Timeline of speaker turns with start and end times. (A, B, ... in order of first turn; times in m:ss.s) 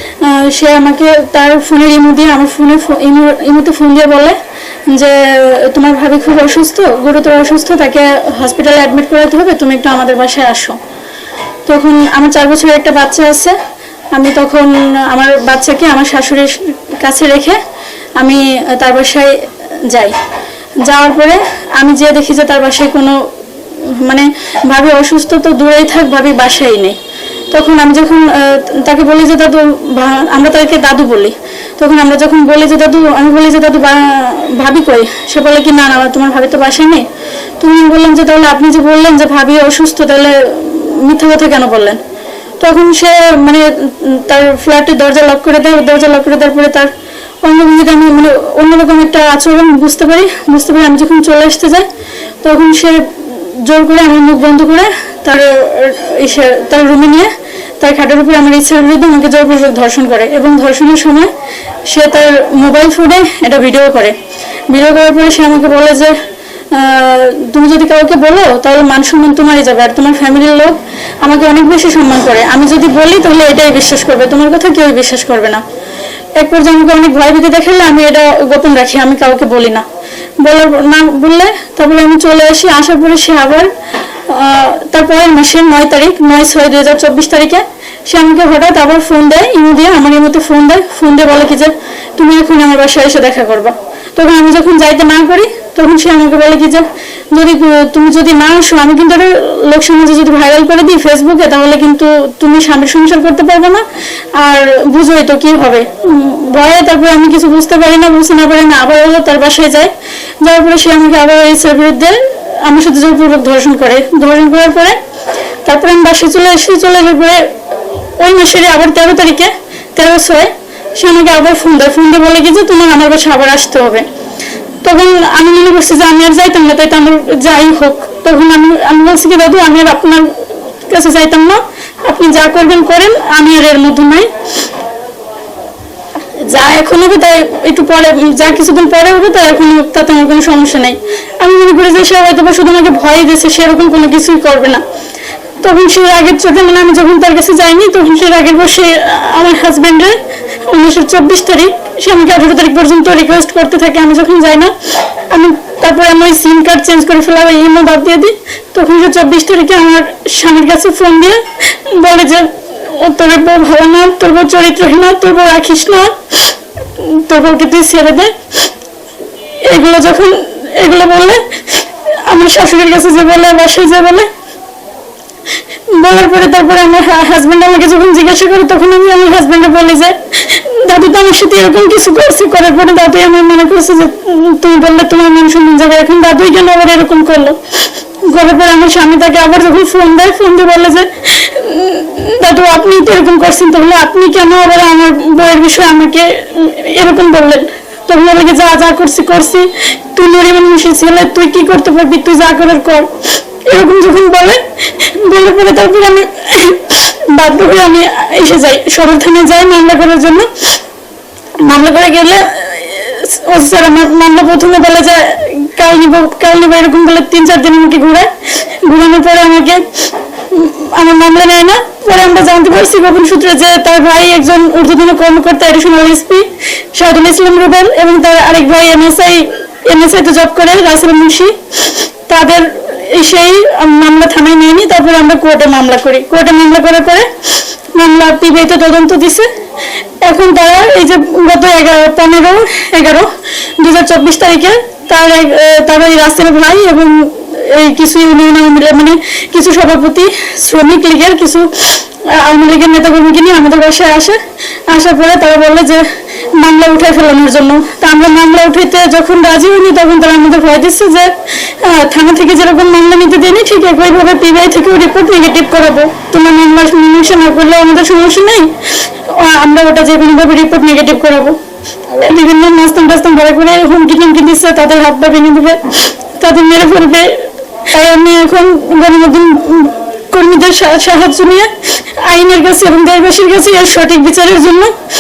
0:00.2-0:04.4 A
0:04.9-0:10.8 A
0:11.7-0:13.6 A
0:14.1-0:17.6 A
0:18.2-0:20.2 A
0:20.8-0:27.0 A
0:27.5-0:37.1 A
0:37.6-0:42.0 A
0:42.6-0:51.9 A
0:52.4-1:01.3 A
1:01.9-1:04.2 A
1:04.7-1:06.2 A
1:06.7-1:15.6 A
1:16.4-1:19.9 A
1:20.4-1:55.0 A
1:55.6-2:04.1 A
2:04.8-2:14.3 A
2:16.4-2:24.8 A
2:25.6-2:48.4 A
2:49.6-2:54.3 A
2:55.9-3:30.7 A
3:31.6-3:59.5 A
4:00.2-4:45.0 A